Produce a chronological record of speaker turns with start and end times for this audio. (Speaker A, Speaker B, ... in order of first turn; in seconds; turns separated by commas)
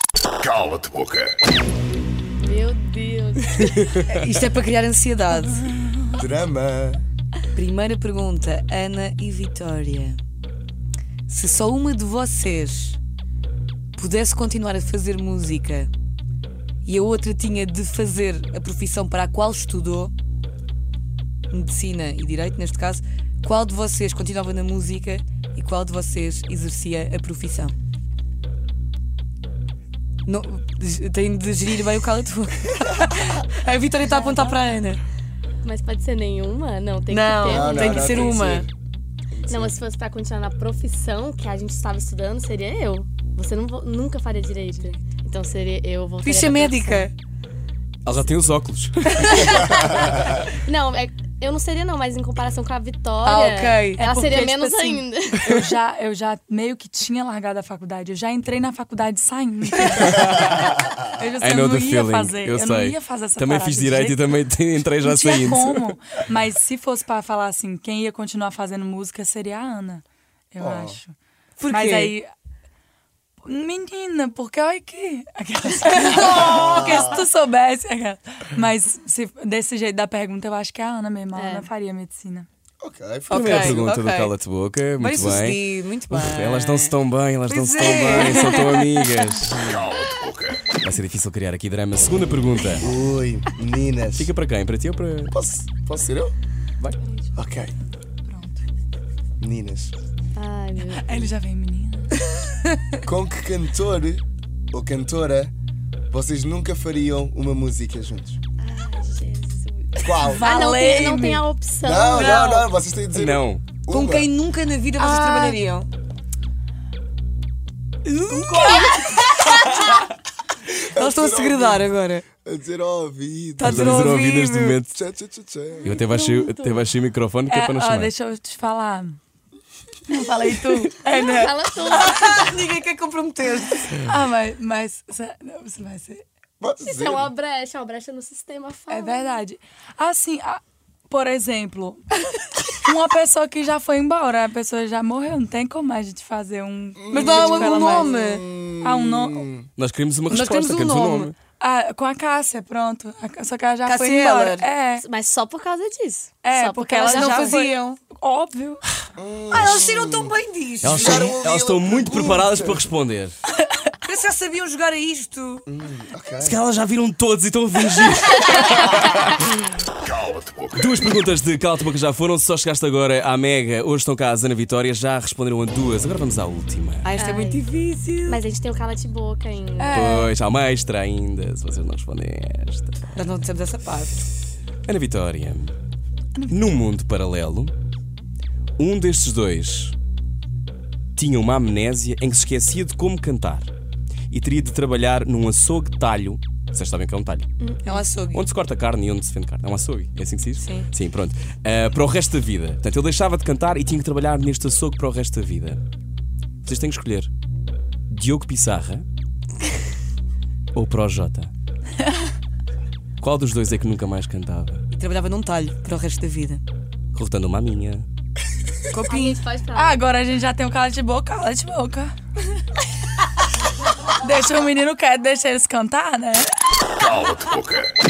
Speaker A: 0.4-1.3, Speaker B: 2.4-4.0, Speaker C: 4.0-5.7, Speaker D: 6.1-7.0, Speaker C: 7.5-10.2, Speaker C: 11.3-13.0, Speaker C: 14.0-15.9, Speaker C: 16.9-20.1, Speaker C: 21.5-27.8, Speaker C: 30.2-35.0, Speaker B: 34.0-34.6, Speaker B: 35.6-38.5, Speaker C: 37.1-38.7, Speaker D: 37.4-38.7, Speaker D: 39.3-39.8, Speaker B: 39.5-47.1, Speaker C: 46.2-47.1, Speaker E: 48.0-49.3, Speaker B: 49.2-55.6, Speaker C: 53.2-54.0, Speaker F: 53.9-64.3, Speaker E: 60.0-60.6, Speaker E: 61.4-65.9, Speaker F: 65.0-72.3, Speaker D: 70.6-71.0, Speaker C: 71.6-72.2, Speaker F: 73.4-82.5, Speaker C: 75.8-77.1, Speaker D: 76.3-77.2, Speaker B: 81.3-81.7, Speaker D: 82.8-83.9, Speaker C: 83.3-84.4, Speaker E: 83.3-89.7, Speaker C: 85.0-87.0, Speaker C: 87.5-89.2, Speaker D: 89.5-89.9, Speaker A: 89.7-90.6, Speaker E: 90.7-92.9, Speaker D: 92.8-94.3, Speaker E: 94.2-95.3, Speaker D: 95.3-96.3, Speaker D: 97.4-97.7, Speaker F: 98.2-98.6, Speaker D: 99.4-99.9, Speaker B: 100.3-101.3, Speaker F: 100.9-102.1, Speaker D: 103.0-105.5, Speaker D: 106.1-108.4, Speaker B: 108.6-112.7, Speaker D: 110.0-110.5, Speaker F: 110.2-111.5, Speaker D: 111.8-114.3, Speaker C: 112.1-112.6, Speaker E: 113.1-113.6, Speaker C: 113.9-115.9, Speaker B: 115.0-115.6, Speaker C: 118.0-120.1, Speaker B: 118.3-120.0, Speaker D: 120.8-124.3, Speaker C: 120.9-122.2, Speaker C: 123.6-124.8, Speaker E: 123.6-124.9, Speaker D: 124.9-126.0, Speaker E: 125.8-128.1, Speaker B: 125.8-126.9, Speaker F: 127.5-129.2, Speaker F: 130.1-131.5, Speaker B: 130.9-132.6, Speaker C: 131.1-133.9, Speaker F: 133.9-136.2, Speaker D: 136.6-137.3, Speaker B: 136.8-139.4, Speaker F: 138.9-142.0, Speaker F: 142.7-148.1, Speaker D: 147.0-149.7, Speaker C: 147.1-148.4, Speaker F: 148.8-149.4, Speaker E: 149.8-151.3, Speaker C: 150.3-151.3, Speaker F: 151.6-155.0, Speaker C: 153.8-154.7, Speaker B: 155.0-157.5, Speaker F: 156.4-158.8, Speaker C: 157.0-158.0, Speaker D: 159.2-162.8, Speaker C: 159.5-161.4, Speaker E: 160.8-163.3, Speaker C: 164.0-165.7, Speaker D: 165.7-166.6, Speaker E: 166.4-169.4, Speaker A: 170.1-170.7, Speaker E: 170.8-177.1, Speaker C: 177.0-178.4, Speaker B: 177.2-177.6, Speaker B: 178.2-180.0, Speaker F: 179.8-180.3, Speaker E: 179.9-183.0, Speaker C: 183.1-184.2, Speaker E: 184.8-185.8, Speaker F: 186.3-186.6, Speaker E: 186.5-187.7, Speaker E: 188.8-189.9, Speaker E: 191.2-193.7, Speaker E: 194.3-197.5, Speaker B: 197.6-198.1, Speaker C: 197.8-198.4, Speaker E: 198.3-205.8, Speaker C: 200.6-200.9, Speaker E: 206.6-207.3, Speaker E: 208.1-209.0, Speaker E: 210.7-211.5, Speaker E: 213.2-214.8, Speaker C: 214.9-216.6, Speaker E: 217.1-218.1, Speaker C: 218.9-219.4, Speaker B: 219.0-220.0, Speaker F: 219.7-222.1, Speaker F: 224.2-226.6, Speaker A: 227.0-227.9